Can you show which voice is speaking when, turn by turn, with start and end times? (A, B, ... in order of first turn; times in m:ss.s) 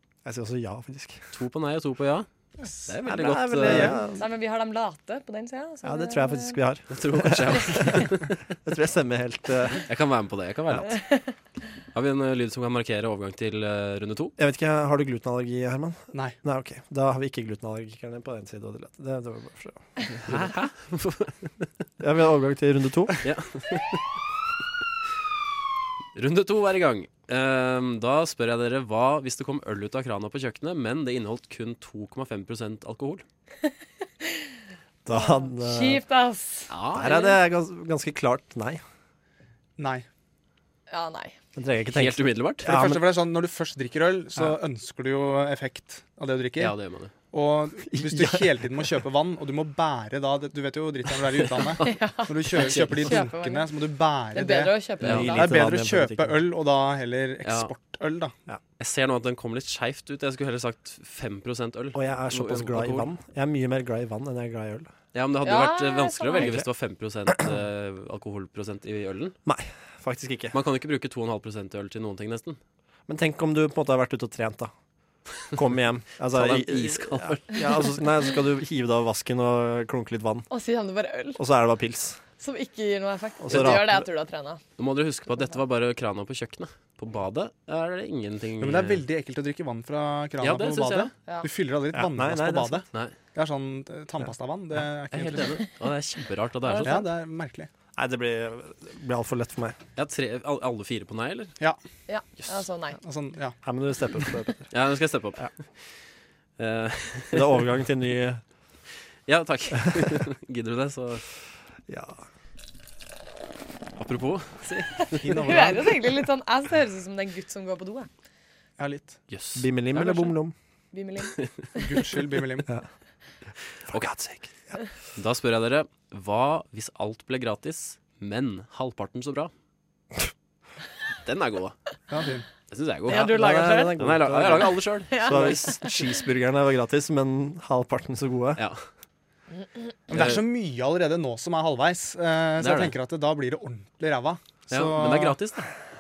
0:00.2-0:01.3 A
0:01.3-0:02.3 B
0:02.9-0:04.0 B
0:03.1-0:04.2 A
0:03.6-0:04.0 C
0:03.9-0:06.6 D
0:05.8-0:08.1 A
0:06.9-0:08.3 B
0:08.6-0:09.9 A
0:09.9-0:11.0 B
0:10.9-0:11.3 D
0:11.9-0:14.4 B
0:14.4-0:20.5 A
0:20.2-0:21.7 B
0:22.0-0:23.2 A
0:23.2-0:24.0 B
0:26.2-0:33.2 B
0:34.2-0:34.6 D
0:35.0-0:36.0 A
0:35.1-0:37.3 D
0:36.7-0:37.3 B
0:36.9-0:38.8 A
0:39.8-0:40.1 C
0:40.9-0:41.4 D
0:41.6-0:43.0 A
0:41.9-0:42.8 B
0:42.6-0:46.8 C
0:46.6-0:47.1 B
0:47.3-0:58.3 C
0:47.9-0:48.9 A
0:51.8-0:53.7 D
0:52.5-0:53.2 B
0:54.3-0:55.5 D
0:55.0-0:55.4 B
0:55.0-0:56.4 A
0:57.4-0:57.7 B
0:58.8-1:03.1 B
1:01.9-1:04.9 A
1:05.1-1:09.4 B
1:05.4-1:06.6 D
1:06.4-1:06.7 A
1:09.5-1:10.6 A
1:10.5-1:12.6 B
1:13.1-1:14.7 A
1:15.5-1:20.5 A
1:16.3-1:17.9 B
1:20.5-1:21.4 D
1:21.4-1:22.2 A
1:22.4-1:24.6 D
1:23.4-1:24.1 A
1:24.8-1:29.1 B
1:28.6-1:35.6 C
1:30.4-1:31.1 B
1:31.9-1:32.8 A
1:35.1-1:37.0 B
1:36.6-1:37.0 D
1:36.8-1:37.7 C
1:38.0-1:39.8 A
1:40.0-1:41.5 B
1:42.1-1:43.0 D
1:43.0-1:43.6 C
1:43.6-1:44.7 A
1:44.7-1:45.6 B
1:46.6-1:47.6 B
1:47.3-1:48.4 A
1:49.3-1:51.2 B
1:49.8-1:50.1 A
1:51.9-1:52.2 A
1:54.0-1:55.3 B
1:55.0-1:58.1 D
1:55.2-1:56.0 C
1:58.8-1:59.2 C
1:59.3-2:00.3 B
1:59.6-2:00.6 A
2:00.9-2:01.8 D
2:01.8-2:02.7 C
2:03.9-2:04.5 A
2:05.2-2:09.5 B
2:11.2-2:11.8 B
2:12.1-2:12.5 C
2:12.7-2:13.4 B
2:13.1-2:14.0 D
2:13.1-2:18.6 A
2:14.0-2:15.6 B
2:15.1-2:16.0 D
2:18.6-2:18.8 B
2:20.1-2:25.4 C
2:20.1-2:20.5 B
2:22.6-2:23.0 B
2:24.7-2:25.7 B